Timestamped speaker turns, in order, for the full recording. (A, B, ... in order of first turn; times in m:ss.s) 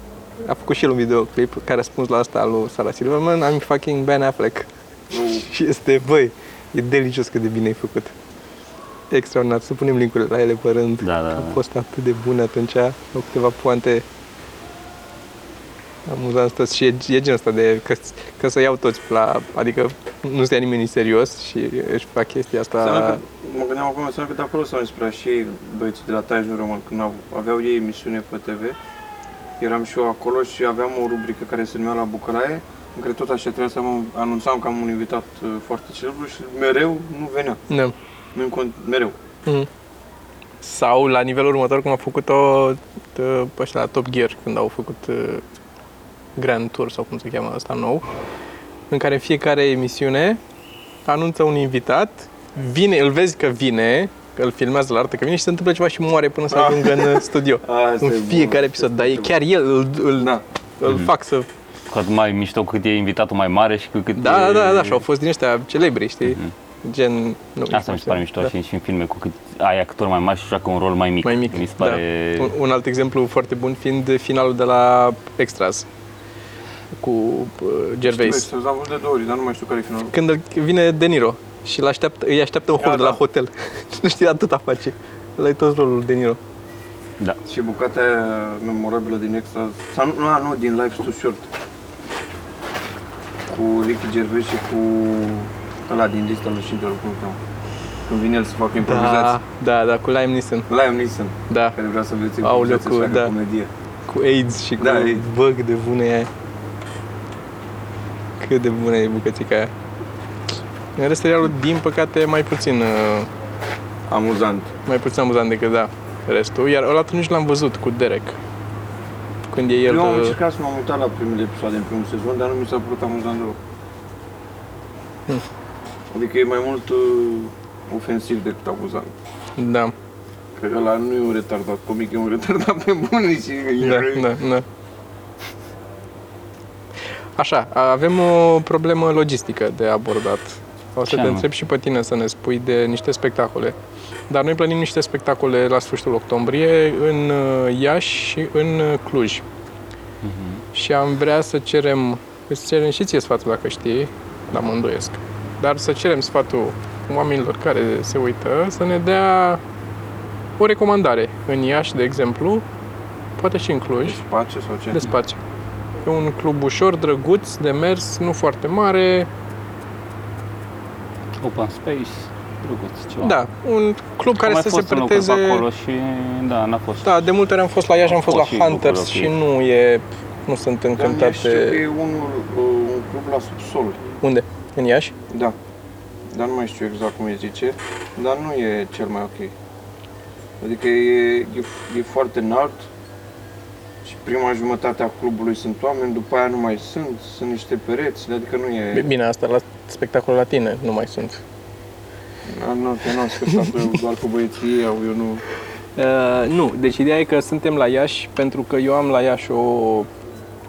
0:00.4-0:08.1 A
0:05.1-0:05.5 B
0:09.1-0:14.0 A
0:11.0-0:11.6 C
0:16.0-0:23.2 A
0:22.8-0:28.8 B
0:29.6-0:37.6 B
0:37.7-0:37.9 A
0:38.3-0:39.2 B
0:40.6-0:45.4 A
0:46.4-0:48.1 A
0:48.9-0:50.4 A
0:51.0-1:01.5 A
0:56.5-0:59.3 B
1:01.9-1:05.0 C
1:04.2-1:08.5 A
1:07.7-1:12.5 C
1:11.2-1:15.9 A
1:16.9-1:18.5 A
1:18.0-1:20.1 B
1:20.1-1:26.4 A
1:22.8-1:23.2 B
1:27.4-1:31.5 B
1:33.5-1:37.4 B
1:38.1-1:39.4 B
1:38.8-1:40.7 A
1:40.7-1:43.7 B
1:41.5-1:41.8 A
1:42.4-1:43.3 A
1:44.1-1:46.3 A
1:44.8-1:45.2 B
1:48.4-1:49.7 A
1:51.0-1:53.3 A
1:54.1-1:54.7 B
1:54.8-1:58.4 A
1:59.5-2:00.4 A
1:59.8-2:03.6 B
2:06.1-2:09.1 B
2:09.6-2:09.9 A
2:10.6-2:14.3 B
2:13.8-2:14.6 A
2:17.4-2:23.8 A
2:21.1-2:21.4 C
2:24.3-2:29.4 A
2:30.2-2:30.6 C
2:30.7-2:39.6 A
2:40.6-2:42.6 A
2:43.4-2:44.2 A
2:44.0-2:45.1 B
2:44.9-2:45.4 A
2:46.0-2:49.3 A
2:51.4-2:53.4 C
2:53.2-2:55.6 A
2:54.4-2:57.3 C
2:57.0-3:01.8 A
2:58.1-2:59.3 C
3:00.9-3:04.0 B
3:04.2-3:05.1 A
3:05.3-3:05.6 B
3:06.3-3:09.5 B
3:10.6-3:12.9 B
3:14.0-3:19.1 B
3:18.9-3:21.4 A
3:22.5-3:25.4 B
3:26.0-3:30.1 A